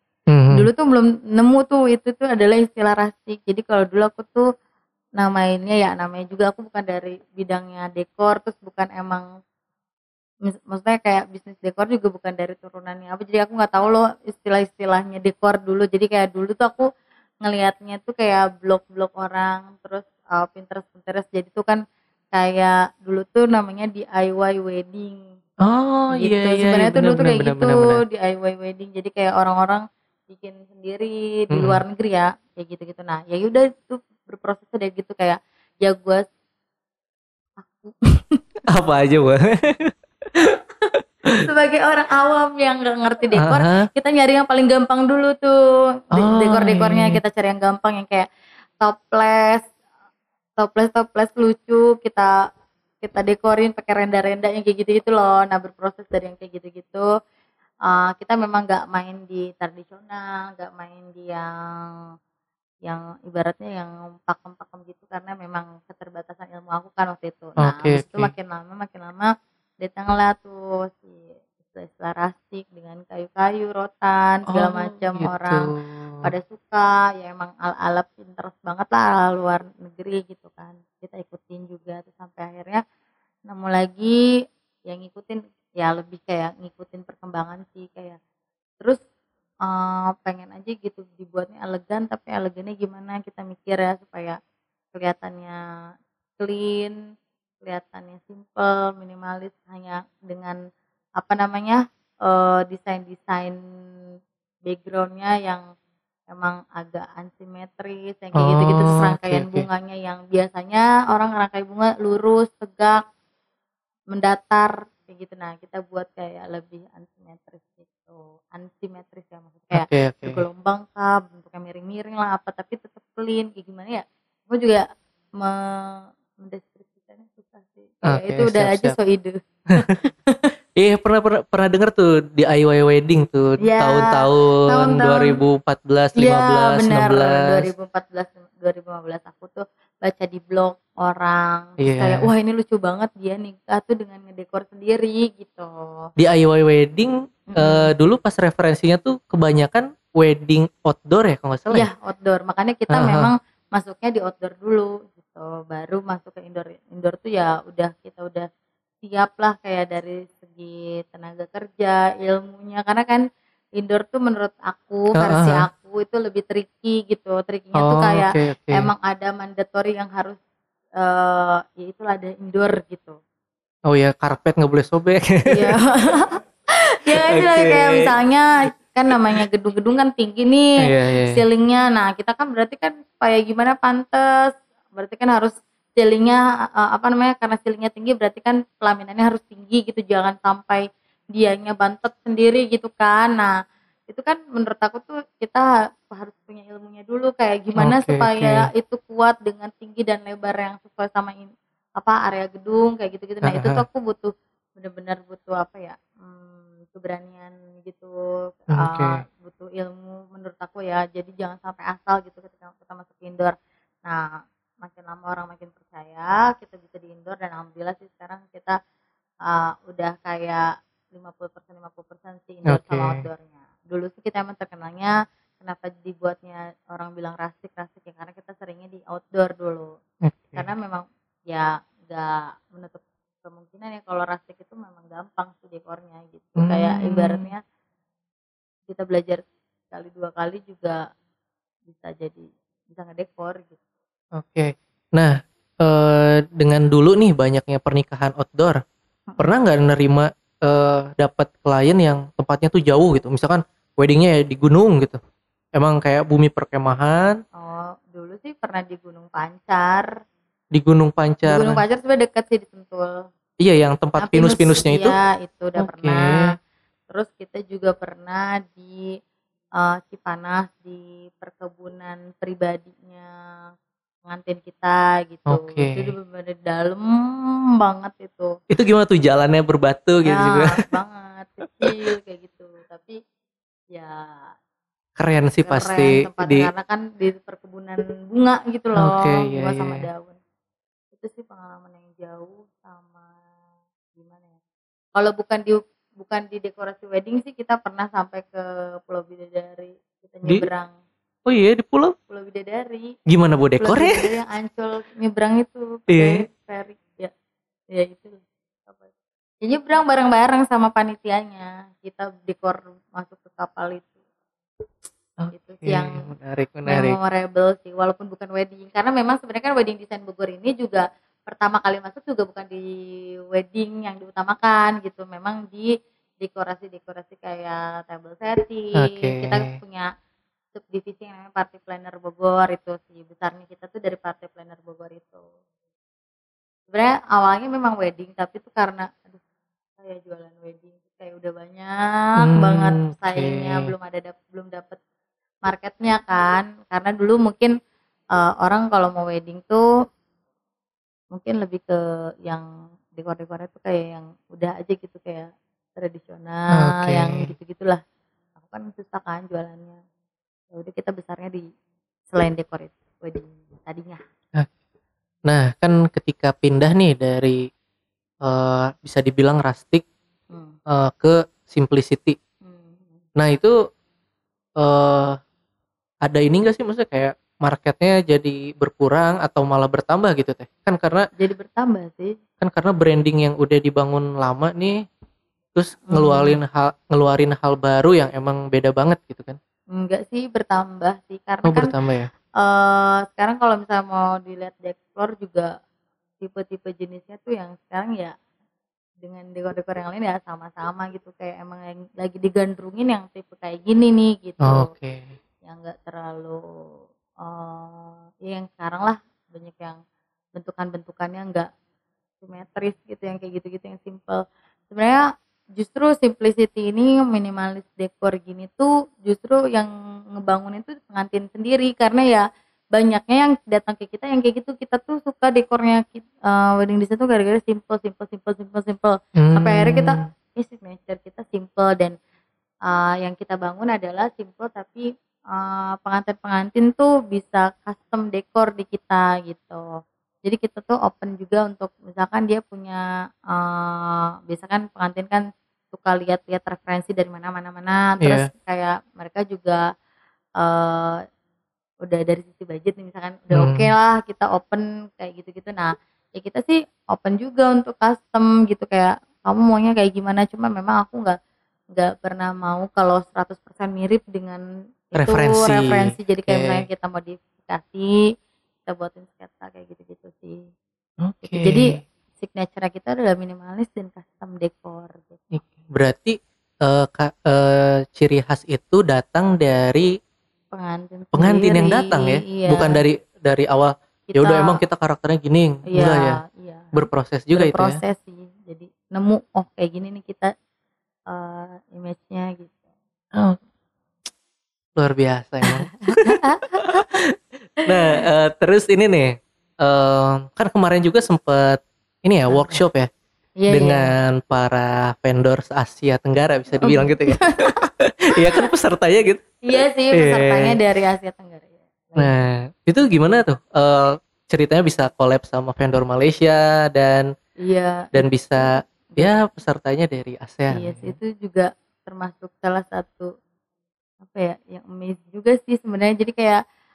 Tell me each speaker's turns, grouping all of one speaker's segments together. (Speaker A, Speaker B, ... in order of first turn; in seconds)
Speaker A: 0.3-0.7, 25.6-28.0, 31.5-31.8, 38.7-40.6, 43.3-43.9, 46.1-47.2, 67.6-68.3, 74.5-76.2, 108.3-109.7, 119.7-120.4, 128.1-128.9, 130.8-137.7, 141.8-142.3, 146.2-151.9, 152.9-153.3, 165.2-165.7, 167.8-168.9, 173.9-175.8, 177.1-178.1, 180.8-181.4, 197.8-198.7, 203.4-203.8, 208.7-209.2, 222.7-223.2, 230.2-230.7, 236.6-237.5, 244.3-248.8, 249.4-255.2, 255.8-257.4, 260.7-261.8, 263.6-265.1, 265.8-266.5, 275.5-276.1, 278.7-280.8, 281.6-281.9, 285.2-286.7, 288.9-290.1, 301.4-302.1, 303.3-304.2, 306.1-306.4, 315.4-317.2, 328.9-329.8, 342.4-343.9, 356.7-357.5, 365.5-367.6, 368.4-370.0, 370.9-372.4, 373.4-373.7, 374.8-375.4, 376.2-381.2, 382.6-385.0, 385.7-389.6, 391.6-392.3, 404.6-405.3, 429.4-430.3, 448.2-448.5, 453.5-453.9, 465.2-466.8, 471.2-472.0, 475.5-480.1, 481.3-486.4, 486.9-488.0, 495.0-497.2, 497.8-503.1, 503.7-510.8, 512.2-517.3, 518.1-521.1
Speaker B: 0.5-4.5, 5.2-9.2, 10.4-16.9, 17.4-21.8, 22.3-25.3, 26.2-36.3, 37.6-38.4, 41.4-48.3, 48.8-49.7, 50.6-52.3, 53.0-57.1, 57.9-61.9, 62.8-75.7, 76.2-82.8, 83.5-84.2, 84.9-88.2, 89.7-94.4, 94.9-95.6, 96.4-97.0, 97.6-100.6, 101.2-103.6, 104.7-105.6, 106.3-113.0, 114.1-124.8, 125.4-130.4, 133.6-135.4, 136.2-146.1, 147.5-147.9, 151.7-158.5, 159.0-163.2, 163.8-170.4, 171.0-173.2, 175.5-176.3, 176.9-184.3, 184.9-193.5, 194.1-214.3, 214.8-218.8, 219.4-229.9, 230.6-237.6, 238.9-241.0, 241.8-243.8, 249.3-249.5, 257.6-260.1, 261.5-263.1, 264.2-266.6, 267.1-269.1, 269.8-273.3, 274.2-278.5, 280.2-283.2, 283.9-284.5, 285.6-290.4, 291.1-293.3, 294.2-294.6, 295.1-300.9, 302.3-303.1, 303.8-307.3, 307.9-309.1, 309.6-314.1, 315.5-316.2, 316.9-322.9, 323.5-330.1, 330.7-335.5, 336.9-339.4, 340.0-345.0, 345.6-347.7, 348.3-349.8, 351.3-358.0, 358.6-360.0, 360.7-361.7, 362.3-364.2, 370.5-370.7, 372.6-373.2, 381.4-382.3, 386.1-386.6, 389.9-391.9, 392.6-395.7, 396.4-398.3, 399.2-404.9, 405.6-406.6, 407.4-410.0, 410.6-411.7, 412.4-415.2, 415.8-432.2, 432.9-439.8, 440.4-449.8, 450.6-451.2, 452.1-461.4, 461.9-468.2, 468.9-470.6, 471.4-475.4, 480.7-483.0, 484.3-484.8, 485.9-486.9, 487.5-490.5, 491.3-492.8, 496.2-497.1, 502.5-502.8, 503.6-504.1, 506.8-507.8, 509.7-512.3, 517.6-519.3, 520.7-523.3, 524.2-526.6